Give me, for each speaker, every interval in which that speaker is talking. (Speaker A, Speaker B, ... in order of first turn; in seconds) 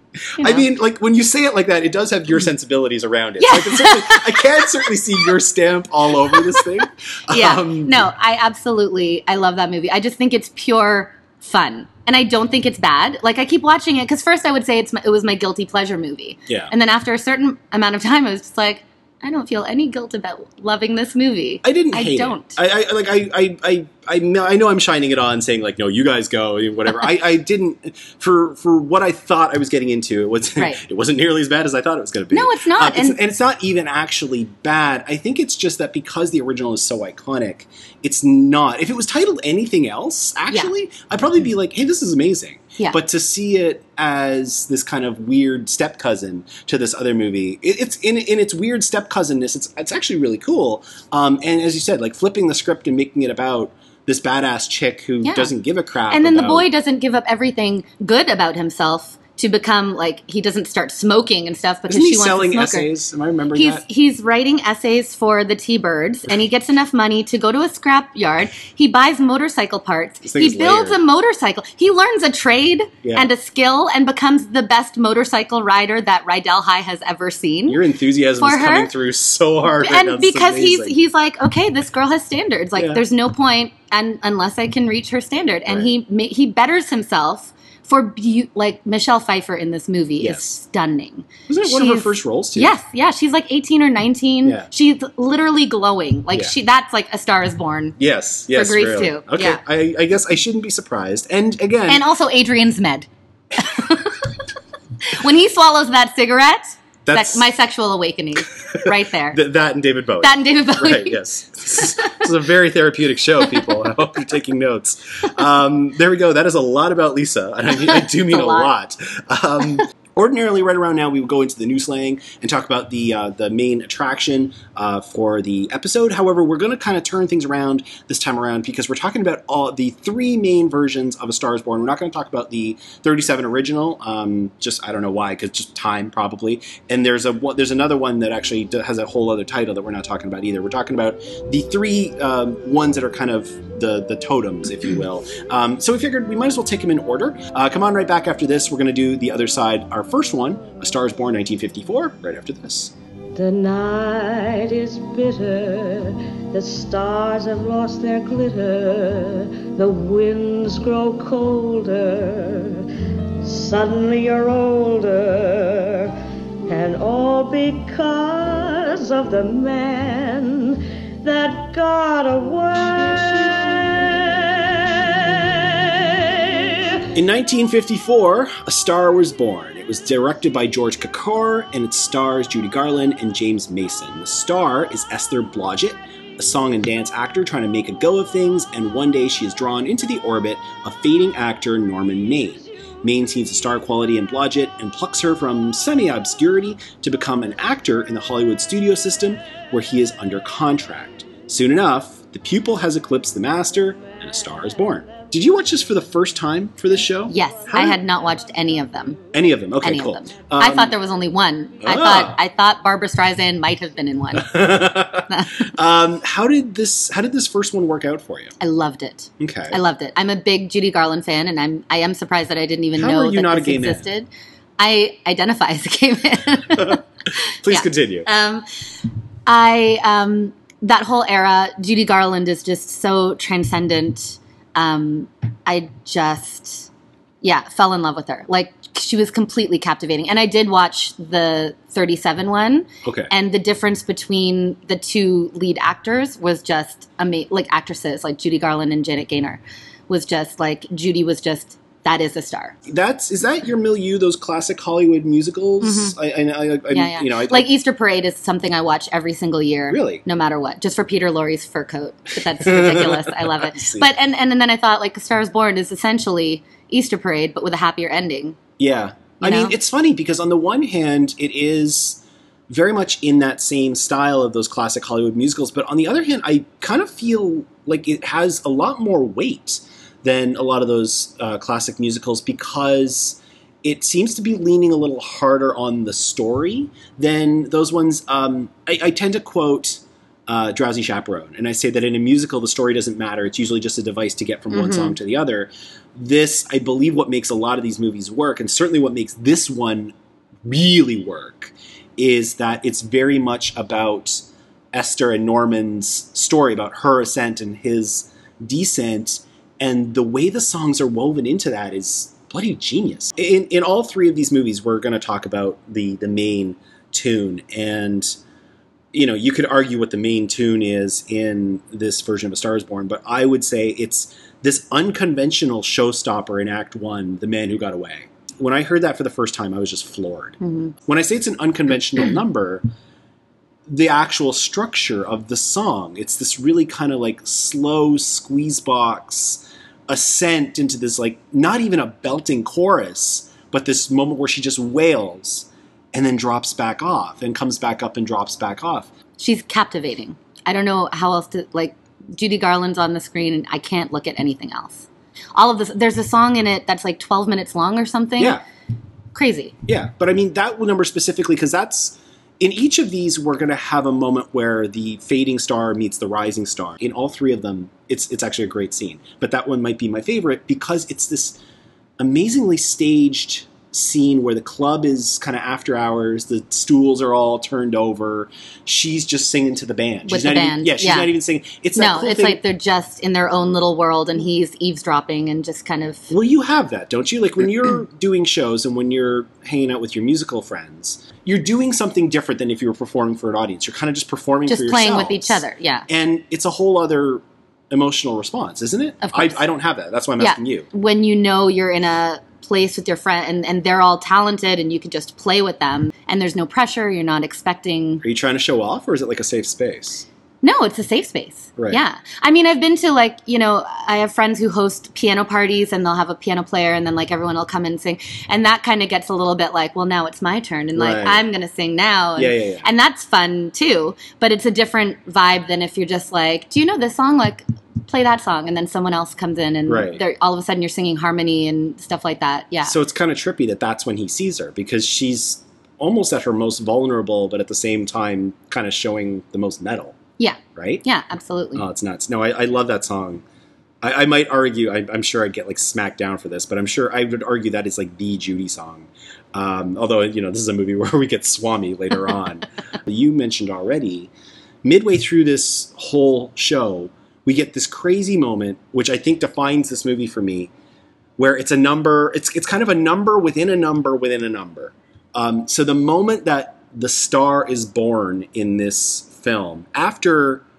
Speaker A: 0.4-0.6, 3.4-4.9, 6.4-6.6, 7.3-22.6, 32.3-33.2, 55.2-55.5, 56.1-62.9, 63.5-77.8, 78.4-78.9, 79.8-98.0, 98.5-99.6, 101.9-104.3, 105.0-109.4, 110.2-111.2, 111.8-112.1, 117.8-118.7, 207.3-209.2, 209.8-214.6, 215.3-215.7, 218.6-228.6, 229.4-236.9, 237.4-252.8, 255.8-256.1, 256.9-268.6, 269.4-269.7, 294.7-295.1, 330.6-330.9, 349.4-358.6, 359.3-359.7, 380.3-381.3, 381.9-386.3, 394.7-396.1, 399.2-399.6, 400.4-408.2, 410.6-432.9, 440.4-441.8
Speaker B: 0.4-8.0, 21.6-56.6, 61.9-63.8, 70.2-71.0, 73.0-73.3, 77.7-81.0, 82.8-83.0, 90.2-90.6, 91.5-92.7, 98.0-102.0, 107.0-107.5, 108.7-152.9, 177.1-208.0, 209.3-210.9, 211.8-212.4, 214.4-218.5, 219.4-219.8, 223.0-224.1, 226.7-227.0, 227.6-228.2, 243.0-243.3, 252.9-257.7, 259.9-260.2, 262.6-264.1, 268.8-318.4, 319.1-332.8, 333.9-349.1, 359.9-371.6, 372.2-382.6, 386.3-400.9, 408.2-410.2, 420.9-421.4, 422.4-422.9, 429.9-430.2, 432.8-440.2, 440.7-441.0, 441.7-443.4, 444.0-454.3, 454.8-460.7, 461.4-470.6
Speaker C: 153.3-162.8, 163.4-166.1, 166.7-176.2